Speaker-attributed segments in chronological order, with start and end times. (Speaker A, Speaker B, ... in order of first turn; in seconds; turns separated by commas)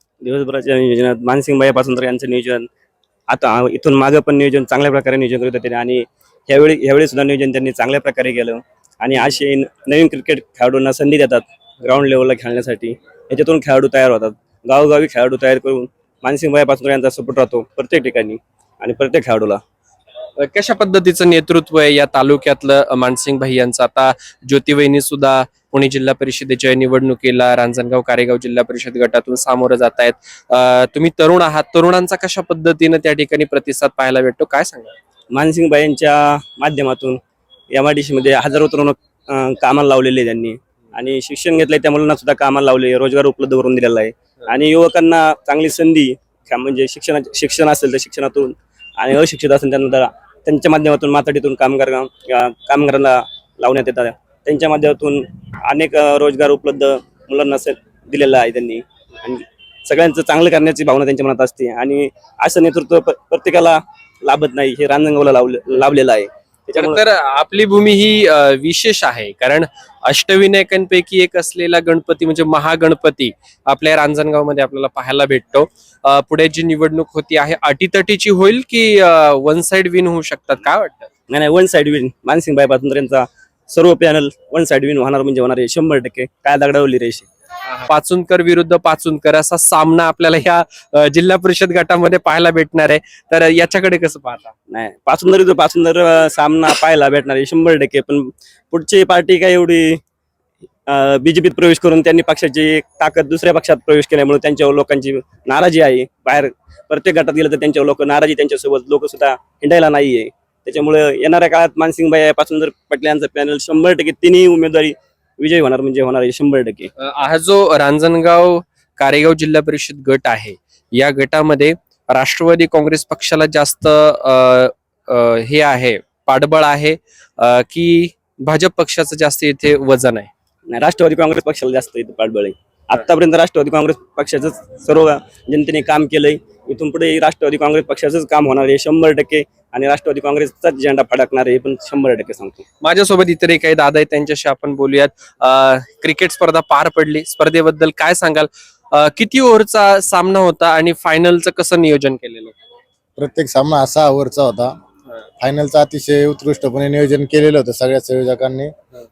Speaker A: 0.2-2.7, Speaker A: 3.3-19.6, Speaker B: 20.4-34.9, Speaker A: 35.3-37.2, Speaker A: 37.7-67.0, Speaker B: 66.7-81.1, Speaker A: 81.3-87.3, Speaker B: 87.7-94.5, Speaker A: 94.7-100.0, Speaker A: 100.9-116.9, Speaker B: 117.0-130.3, Speaker A: 130.7-142.7, Speaker B: 142.8-152.5, Speaker C: 153.2-154.7, Speaker C: 155.4-158.7